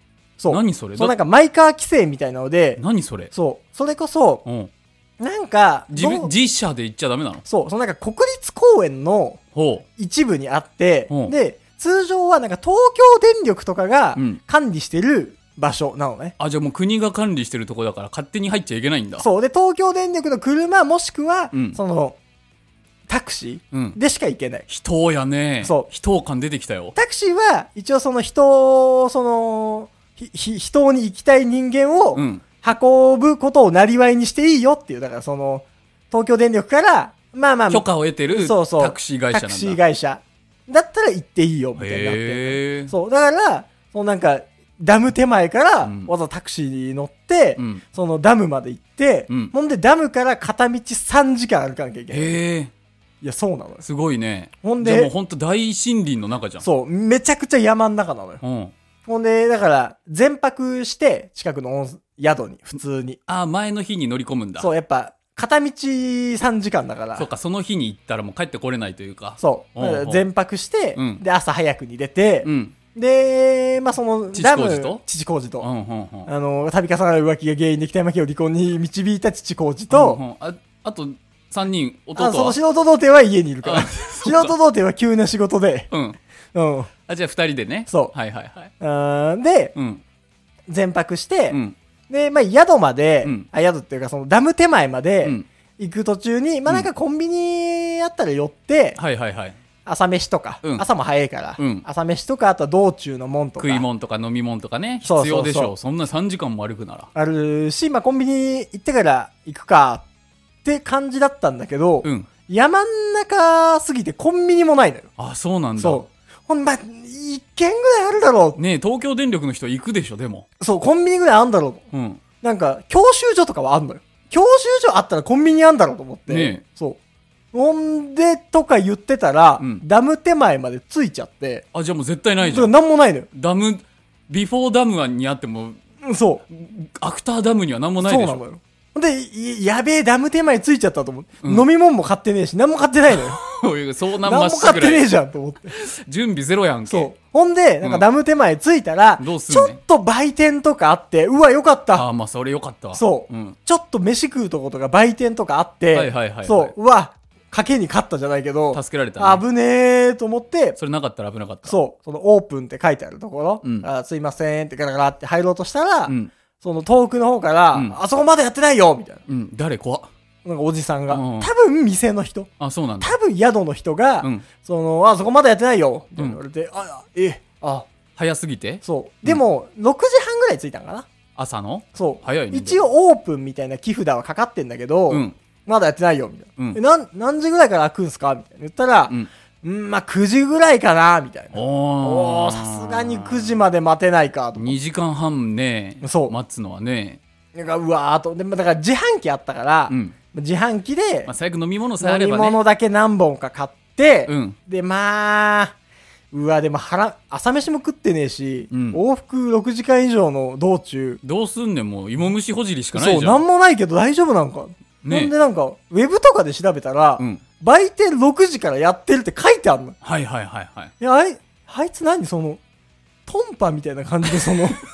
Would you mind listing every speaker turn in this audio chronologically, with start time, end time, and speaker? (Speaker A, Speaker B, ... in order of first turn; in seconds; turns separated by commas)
Speaker A: 0.4-4.4, Speaker B: 0.5-1.1, Speaker B: 2.8-3.3, Speaker B: 4.4-4.7, Speaker A: 5.2-6.3, Speaker B: 5.9-7.4, Speaker A: 7.5-9.4, Speaker B: 9.5-9.8, Speaker A: 10.0-16.3, Speaker B: 11.1-11.3, Speaker B: 14.1-14.4, Speaker B: 16.4-19.3, Speaker A: 19.2-22.2, Speaker B: 21.5-21.8, Speaker A: 23.1-24.6, Speaker B: 23.7-24.0, Speaker B: 24.7-26.9, Speaker A: 26.9-52.4, Speaker B: 32.1-32.4, Speaker B: 37.7-39.8, Speaker B: 41.8-42.9, Speaker B: 45.8-46.1, Speaker B: 47.6-47.8, Speaker B: 49.3-49.5, Speaker B: 52.1-52.7, Speaker A: 53.2-53.8, Speaker B: 53.8-56.6, Speaker A: 54.6-55.1, Speaker A: 56.6-58.4, Speaker B: 58.4-58.7, Speaker A: 59.1-63.2, Speaker B: 63.3-64.7, Speaker A: 64.6-67.3, Speaker B: 67.2-70.2, Speaker A: 69.4-75.7, Speaker B: 70.9-71.2, Speaker B: 72.4-72.7, Speaker B: 74.3-75.0, Speaker B: 75.6-76.3, Speaker A: 76.2-80.2, Speaker B: 79.9-82.6, Speaker A: 82.2-85.9, Speaker B: 83.6-84.5, Speaker B: 85.9-86.2, Speaker A: 86.5-86.9, Speaker B: 87.1-88.7, Speaker A: 87.9-88.1, Speaker A: 88.8-89.7, Speaker B: 89.7-90.0, Speaker A: 90.7-91.6, Speaker B: 91.5-91.8, Speaker A: 92.1-99.0, Speaker B: 93.2-93.5, Speaker B: 99.0-99.6, Speaker A: 99.8-103.8, Speaker B: 101.6-101.8, Speaker B: 103.6-107.1, Speaker A: 105.0-105.7, Speaker A: 107.1-110.0, Speaker A: 110.6-115.1, Speaker B: 112.0-112.3, Speaker B: 115.2-116.0, Speaker A: 115.8-118.6, Speaker B: 118.5-120.5, Speaker A: 120.6-121.8, Speaker B: 121.9-122.2, Speaker A: 122.4-127.0, Speaker B: 126.3-126.6, Speaker A: 127.5-131.6, Speaker B: 129.6-129.8, Speaker B: 131.7-132.7, Speaker A: 132.4-133.3, Speaker B: 133.3-135.8, Speaker A: 136.0-136.4, Speaker B: 136.5-138.4, Speaker A: 138.0-143.4, Speaker B: 143.1-145.1, Speaker A: 144.2-145.7, Speaker B: 145.7-147.1, Speaker A: 146.9-152.1, Speaker B: 149.2-149.8, Speaker B: 151.9-153.6, Speaker A: 152.9-160.8, Speaker B: 155.9-156.7, Speaker B: 158.7-159.4, Speaker B: 160.8-161.8, Speaker A: 161.7-169.2, Speaker B: 163.6-163.9, Speaker B: 166.1-166.3, Speaker B: 167.7-168.0, Speaker B: 169.3-170.1, Speaker A: 170.4-177.9, Speaker B: 171.1-171.5, Speaker B: 172.6-173.1, Speaker B: 178.2-179.4, Speaker A: 178.8-181.1, Speaker B: 181.3-182.8, Speaker A: 181.9-194.8, Speaker B: 185.1-185.4, Speaker B: 191.5-193.6, Speaker B: 194.6-197.2, Speaker A: 196.0-196.3, Speaker A: 197.5-201.3, Speaker B: 199.9-200.1, Speaker B: 201.2-202.6, Speaker A: 202.0-205.7, Speaker B: 204.2-204.6, Speaker A: 206.3-211.2, Speaker B: 208.7-209.0, Speaker B: 211.2-213.4, Speaker A: 212.9-219.9, Speaker B: 215.0-215.3, Speaker B: 220.0-220.9, Speaker A: 221.0-222.6, Speaker A: 223.3-224.8, Speaker B: 224.3-224.6